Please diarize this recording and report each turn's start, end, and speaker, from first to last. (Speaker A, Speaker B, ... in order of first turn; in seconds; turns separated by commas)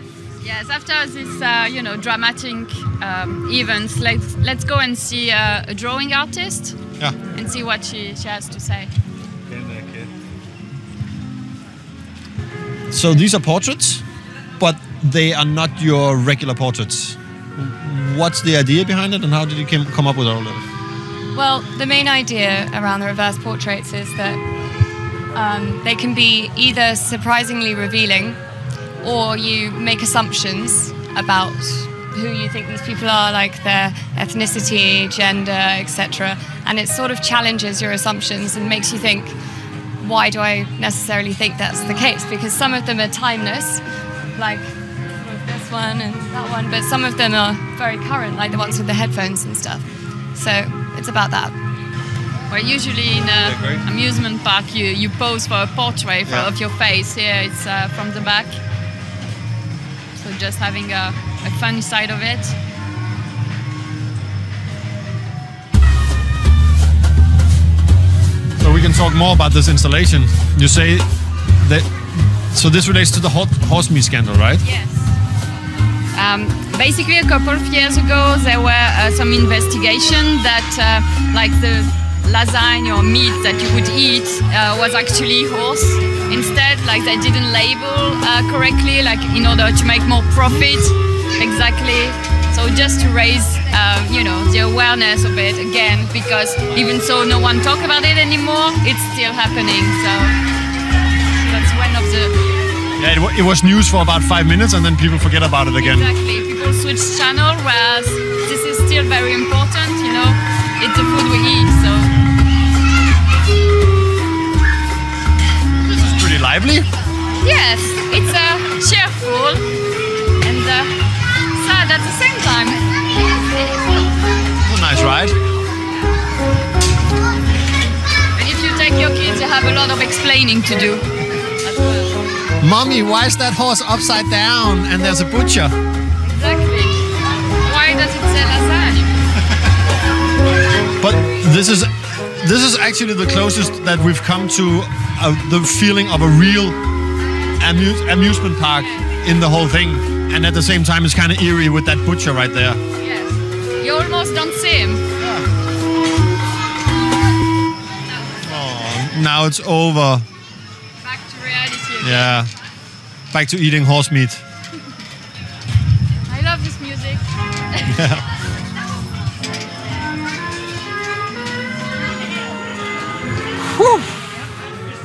Speaker A: 0.4-6.8, Speaker A: 7.3-8.9, Speaker B: 9.5-10.1, Speaker B: 12.9-14.0, Speaker B: 14.6-20.7, Speaker C: 21.3-24.4, Speaker C: 25.3-28.4, Speaker C: 29.0-39.4, Speaker C: 40.0-43.8, Speaker C: 44.4-51.5, Speaker A: 52.5-58.6, Speaker B: 53.4-53.8, Speaker B: 56.3-56.5, Speaker A: 60.2-62.5, Speaker B: 68.6-71.1, Speaker B: 71.6-74.6, Speaker A: 74.6-75.2, Speaker A: 76.2-100.3, Speaker A: 101.4-102.3, Speaker B: 103.0-106.1, Speaker A: 105.8-112.1, Speaker B: 115.7-116.9, Speaker A: 117.4-119.6, Speaker A: 120.4-120.9, Speaker A: 121.5-122.9, Speaker B: 124.6-125.4, Speaker A: 128.4-131.1, Speaker A: 131.6-132.1, Speaker B: 132.6-135.7, Speaker A: 136.3-137.0, Speaker A: 137.6-139.1, Speaker B: 141.0-146.8, Speaker B: 147.6-152.8, Speaker A: 148.8-149.0, Speaker A: 153.0-155.0, Speaker B: 155.2-155.5, Speaker B: 158.4-160.2, Speaker A: 161.0-162.4, Speaker B: 162.0-162.5, Speaker B: 163.3-164.4, Speaker A: 166.3-168.0, Speaker B: 167.8-168.3, Speaker B: 173.6-174.2